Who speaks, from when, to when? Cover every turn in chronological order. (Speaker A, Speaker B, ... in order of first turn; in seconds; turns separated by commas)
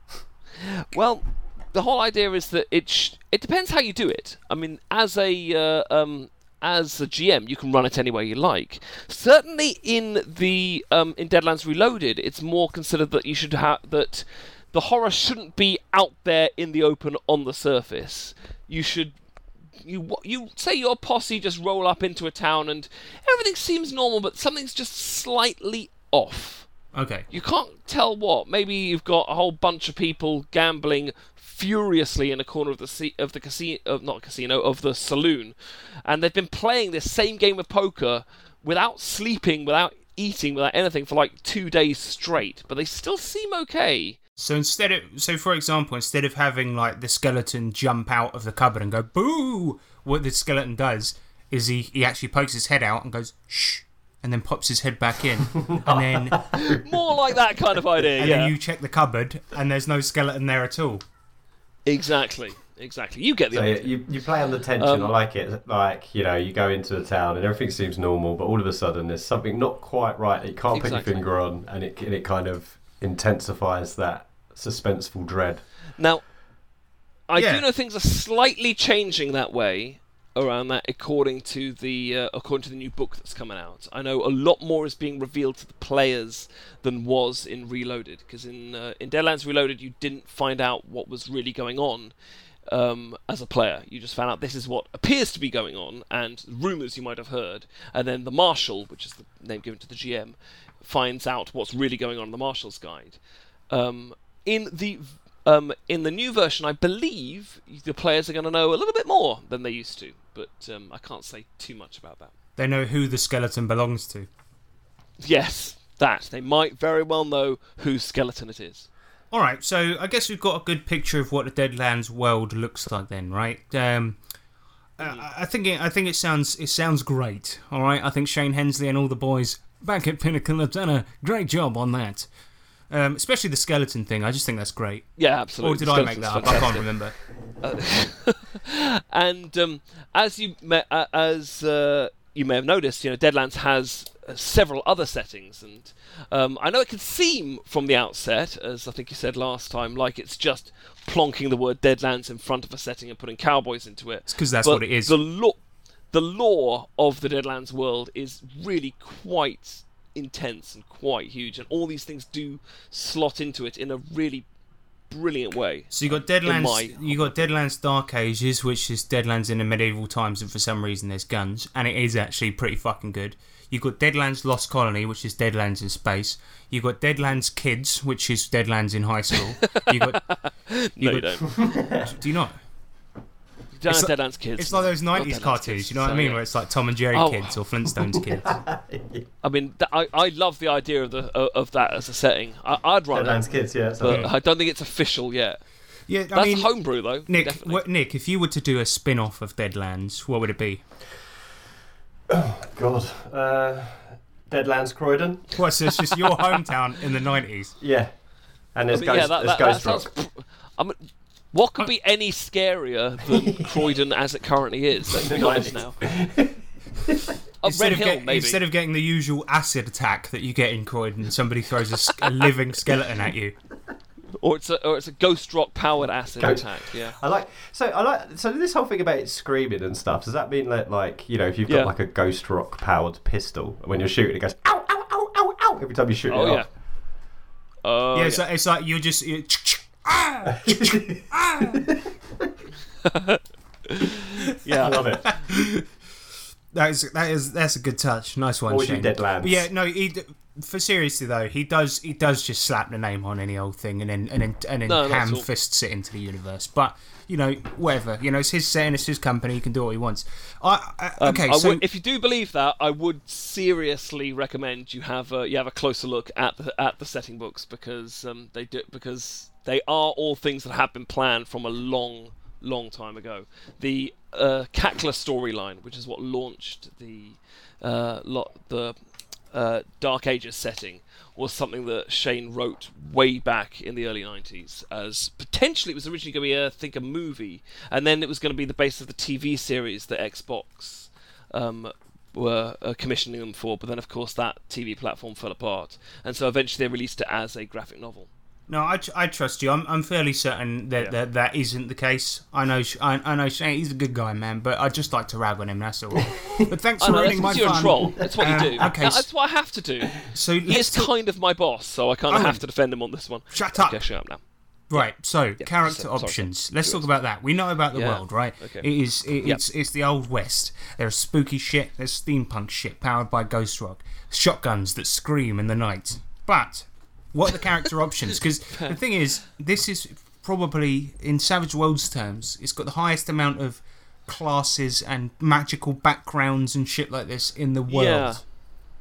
Speaker A: 0.6-19.1, Speaker A: 19.8-26.7, Speaker B: 26.9-27.2, Speaker A: 27.3-44.2, Speaker B: 44.4-56.4, Speaker C: 55.5-56.8, Speaker A: 56.5-58.5, Speaker B: 58.2-61.0, Speaker A: 61.9-64.0, Speaker C: 63.5-75.6, Speaker A: 64.8-65.1, Speaker A: 70.7-71.2, Speaker A: 76.0-76.2, Speaker A: 77.3-92.1, Speaker B: 77.3-77.6, Speaker A: 92.7-103.2, Speaker A: 103.7-112.3, Speaker B: 112.6-114.3, Speaker A: 115.2-118.9, Speaker B: 119.3-124.2, Speaker B: 125.0-132.3, Speaker B: 132.9-137.1, Speaker A: 135.2-136.9, Speaker A: 137.6-155.6, Speaker B: 154.3-155.2, Speaker A: 156.1-164.5, Speaker A: 165.1-167.5, Speaker B: 165.9-180.2, Speaker A: 179.7-181.5, Speaker B: 181.0-182.6, Speaker C: 181.5-182.0, Speaker A: 183.8-186.4, Speaker B: 183.9-188.6, Speaker A: 187.1-187.6, Speaker C: 188.4-189.2, Speaker A: 189.4-195.6, Speaker C: 193.1-194.3, Speaker B: 194.0-194.3, Speaker B: 196.1-200.8, Speaker A: 196.3-197.8, Speaker C: 202.3-205.7, Speaker B: 205.6-207.8, Speaker C: 207.8-208.1, Speaker C: 208.7-210.1, Speaker A: 208.9-216.0, Speaker C: 213.3-213.9, Speaker C: 215.1-217.3, Speaker A: 217.6-218.6, Speaker B: 217.6-223.6, Speaker A: 224.4-227.2, Speaker C: 226.4-236.7, Speaker A: 231.7-231.9, Speaker A: 236.3-236.7, Speaker A: 237.8-238.4, Speaker B: 238.1-241.8, Speaker C: 240.4-242.1, Speaker A: 243.1-245.0, Speaker C: 244.8-245.3, Speaker B: 245.3-245.9, Speaker B: 246.7-261.8, Speaker C: 248.7-249.7, Speaker A: 254.8-255.5, Speaker A: 261.2-278.9, Speaker A: 279.5-298.3, Speaker B: 298.7-309.3, Speaker A: 307.0-314.4, Speaker C: 307.6-308.9, Speaker B: 310.2-311.1, Speaker B: 312.3-312.6, Speaker B: 313.5-314.0, Speaker B: 314.9-338.4, Speaker A: 315.6-317.1, Speaker A: 317.9-318.9, Speaker A: 328.7-329.0, Speaker A: 337.9-338.4